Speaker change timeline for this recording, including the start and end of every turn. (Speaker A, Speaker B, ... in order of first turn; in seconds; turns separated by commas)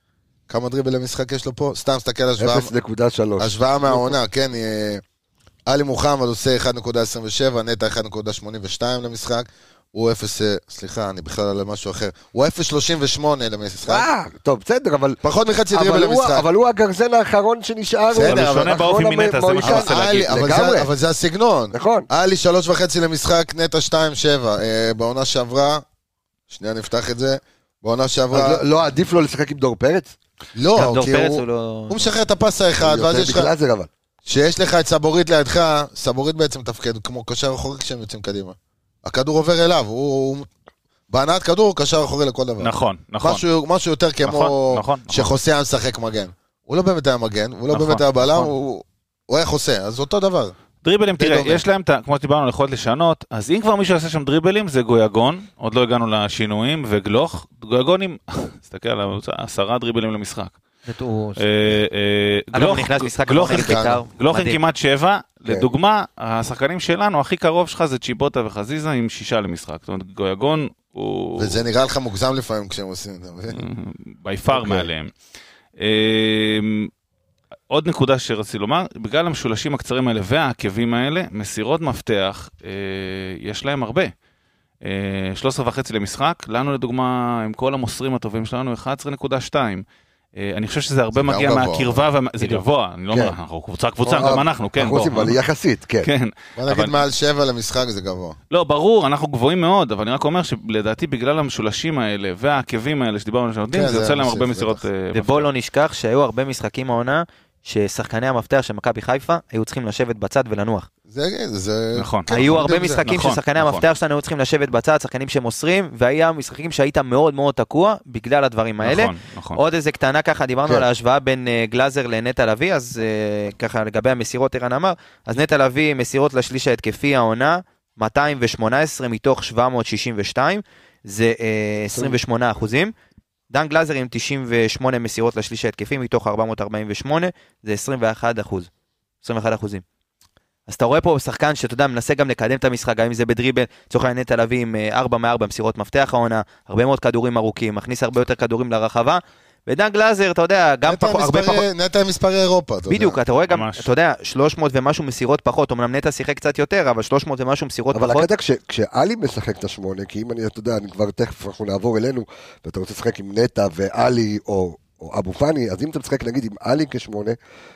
Speaker A: 0.5-2.7, Speaker B: 2.4-4.2, Speaker A: 3.4-5.0, Speaker A: 5.7-14.1, Speaker B: 13.9-15.2, Speaker A: 15.2-16.5, Speaker B: 15.7-20.9, Speaker C: 18.1-20.3, Speaker A: 18.1-18.8, Speaker A: 19.6-25.8, Speaker B: 21.7-22.1, Speaker A: 26.5-28.6, Speaker B: 28.3-30.1, Speaker A: 30.6-33.5, Speaker D: 30.7-32.1, Speaker B: 32.8-33.9, Speaker A: 34.2-40.5, Speaker A: 41.1-50.5, Speaker C: 42.6-43.4, Speaker C: 44.2-45.3, Speaker C: 47.7-48.5, Speaker C: 50.8-60.6, Speaker A: 51.1-51.6, Speaker D: 60.9-61.5, Speaker C: 61.4-71.6, Speaker D: 62.5-64.6, Speaker A: 63.5-64.0, Speaker A: 71.4-73.6, Speaker C: 73.5-75.1, Speaker B: 74.5-74.9, Speaker C: 75.8-76.9, Speaker C: 77.7-84.1, Speaker C: 84.8-89.8, Speaker C: 90.3-95.4, Speaker A: 91.1-92.0, Speaker B: 93.1-93.4, Speaker B: 94.0-96.1, Speaker C: 96.0-97.0, Speaker A: 96.6-98.3, Speaker C: 98.5-105.5, Speaker A: 103.7-104.8, Speaker D: 105.1-110.9, Speaker A: 111.1-112.7, Speaker C: 111.9-113.8, Speaker D: 112.3-132.9, Speaker C: 118.8-119.6, Speaker D: 133.5-138.7, Speaker D: 139.2-139.8, Speaker D: 140.7-151.7, Speaker A: 150.8-153.2, Speaker D: 152.9-158.3, Speaker C: 153.5-153.9, Speaker B: 157.9-167.3